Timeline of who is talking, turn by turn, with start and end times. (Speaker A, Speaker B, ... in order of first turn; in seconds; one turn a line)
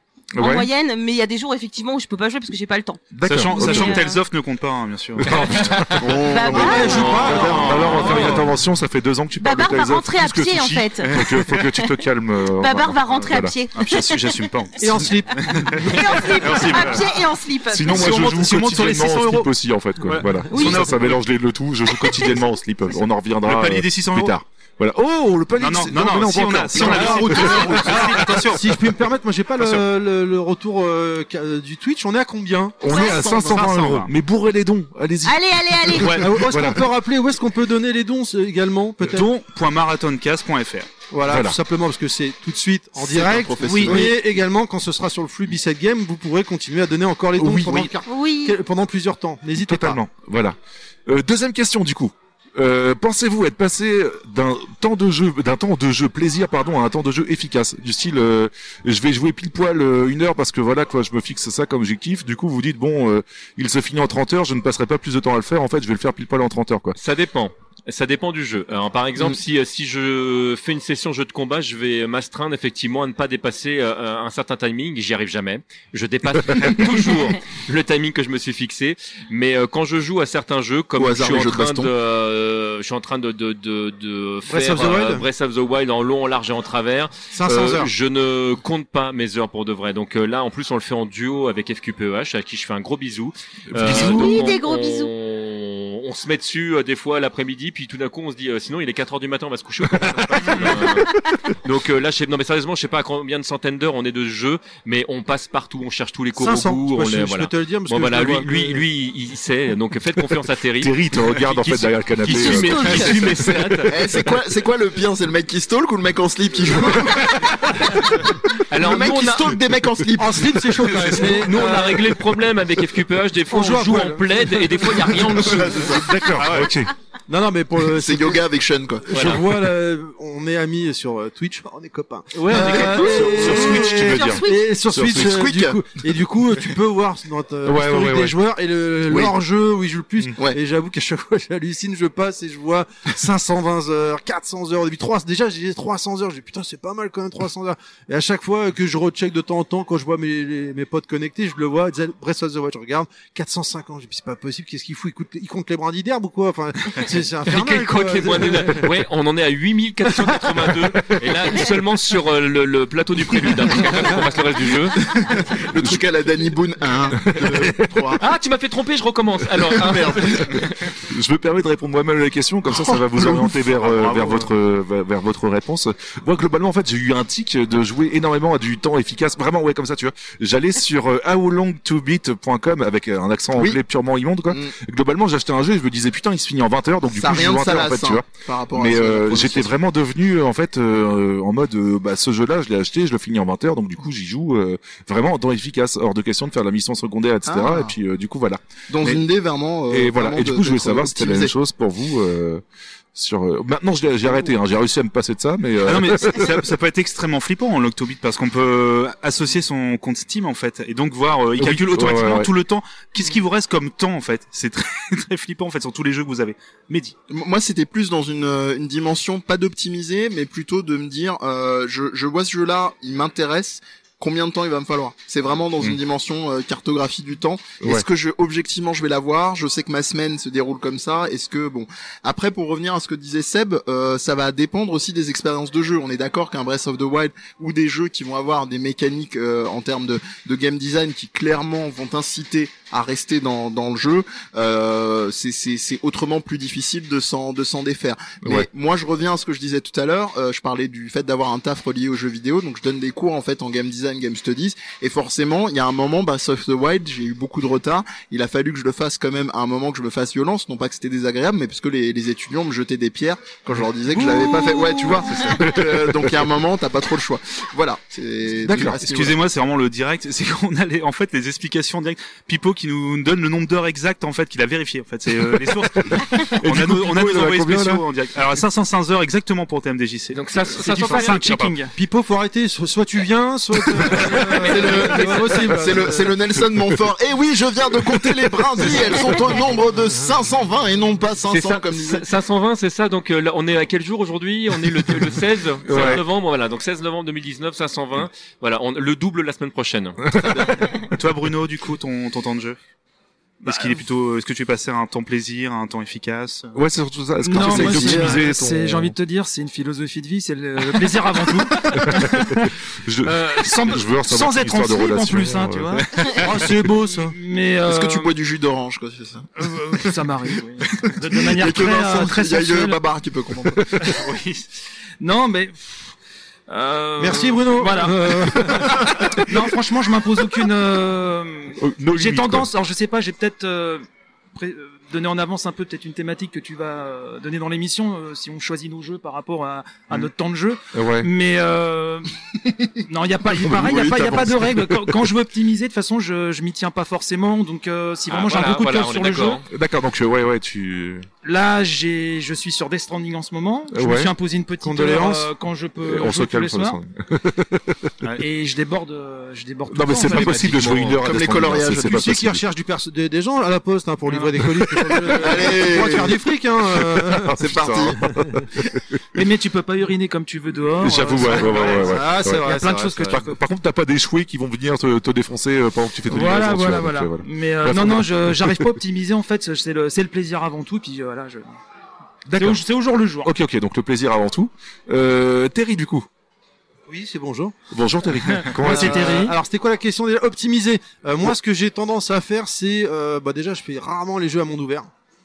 Speaker A: 0.3-0.7
Speaker B: 0.4-4.2
Speaker A: 3.1-4.0
Speaker C: 3.2-5.8
Speaker A: 5.2-6.2
Speaker D: 5.3-6.0
Speaker B: 5.5-7.5
Speaker E: 5.9-8.3
Speaker F: 6.5-8.5
Speaker D: 6.7-8.4
Speaker A: 7.2-13.6
Speaker B: 9.4-11.2
Speaker C: 11.0-11.6
Speaker B: 12.5-14.4
Speaker C: 13.7-17.1
Speaker F: 14.8-16.9
Speaker B: 15.8-18.0
Speaker A: 17.7-28.1
Speaker C: 17.9-21.2
Speaker B: 20.5-20.9
Speaker C: 23.4-24.4
Speaker C: 25.6-28.8
Speaker E: 26.8-28.1
Speaker F: 26.8-32.9
Speaker A: 32.8-36.9
Speaker B: 32.9-33.4
Speaker E: 32.9-34.1
Speaker C: 33.4-34.1
Speaker B: 35.2-36.3
Speaker F: 36.1-39.3
Speaker C: 39.0-40.9
Speaker F: 41.1-50.0
Speaker A: 41.2-41.6
Speaker E: 43.0-44.2
Speaker C: 43.6-44.0
Speaker A: 47.3-47.9
Speaker B: 48.0-48.6
Speaker A: 49.6-67.0
Speaker D: 66.9-114.0
Speaker E: 81.0-81.9
Speaker F: 84.5-85.2
Speaker F: 87.3-87.9
Speaker A: 93.7-94.4
Speaker B: 93.8-95.1
Speaker F: 106.3-108.8
Speaker A: 110.8-113.6
Speaker B: 112.3-113.5
Speaker E: 113.8-121.2
Speaker D: 118.7-119.5
Speaker F: 120.2-122.2
Speaker D: 121.1-125.9
Speaker F: 123.5-125.3
Speaker E: 125.3-126.2
Speaker A: 125.8-126.9
Speaker C: 126.3-126.9
Speaker F: 127.3-128.4
Speaker E: 127.9-129.3
Speaker F: 129.1-158.9
Speaker D: 129.1-129.4
Speaker D: 132.5-132.8
Speaker E: 132.5-134.0
Speaker A: 132.5-135.4
Speaker B: 132.5-134.7
Speaker E: 135.1-135.8
Speaker A: 137.6-138.3
Speaker D: 157.4-165.1
Speaker E: 165.0-168.2
Speaker A: 165.7-166.0
Speaker A: 167.1-167.9
Speaker D: 168.2-170.7
Speaker E: 169.7-170.7
Speaker A: 171.0-199.2
Speaker E: 172.7-174.5
Speaker E: 183.5-183.8
Speaker E: 184.5-184.7
Speaker E: 187.1-189.7
Speaker E: 197.4-197.9
Speaker E: 198.9-201.5
Speaker A: 199.9-202.6
Speaker A: 203.1-206.7
Speaker C: 205.8-217.1
Speaker A: 211.6-212.5
Speaker E: 217.3-269.4
Speaker A: 248.4-248.7
Speaker F: 264.1-265.1
Speaker A: 265.3-266.4
Speaker A: 268.6-269.0
Speaker C: 269.0-281.8
Speaker A: 276.1-278.0
Speaker D: 280.3-281.4
Speaker G: 280.8-281.9
Speaker F: 281.9-286.4
Speaker E: 284.6-292.2
Speaker D: 284.8-285.2
Speaker D: 291.5-300.2
Speaker A: 295.8-296.2
Speaker A: 300.2-300.5
Speaker E: 300.4-300.9
Speaker C: 301.1-302.8
Speaker C: 303.6-306.7
Speaker G: 303.6-304.0
Speaker A: 306.7-309.1
Speaker G: 307.4-318.4
Speaker E: 307.6-308.3
Speaker A: 312.0-316.0
Speaker F: 316.4-317.3
Speaker E: 317.8-320.1
Speaker G: 319.6-323.0
Speaker E: 320.9-324.1
Speaker G: 324.0-324.2
Speaker C: 324.1-324.6
Speaker G: 325.2-326.1
Speaker G: 326.7-342.3
Speaker F: 327.2-329.0
Speaker A: 331.8-332.7
Speaker A: 340.9-341.3
Speaker G: 343.1-349.6
Speaker E: 343.5-345.0
Speaker D: 348.3-349.6
Speaker A: 349.7-351.3
Speaker G: 351.4-357.0
Speaker A: 353.9-354.3
Speaker F: 354.8-355.5
Speaker A: 356.0-358.1
Speaker G: 358.4-360.9
Speaker A: 359.9-362.6
Speaker D: 360.3-361.2
Speaker E: 361.2-362.3
Speaker F: 362.0-368.6
Speaker G: 364.3-364.6
Speaker A: 364.7-365.3
Speaker E: 365.3-366.4
Speaker A: 367.0-368.6
Speaker E: 367.6-368.2
Speaker G: 369.3-373.5
Speaker A: 371.0-378.9
Speaker F: 371.4-373.4
Speaker G: 376.2-381.7
Speaker A: 382.4-382.8
Speaker G: 382.5-383.5
Speaker A: 383.4-386.3
Speaker F: 387.1-387.7
Speaker A: 387.9-389.4
Speaker G: 388.5-389.6
Speaker F: 388.8-395.1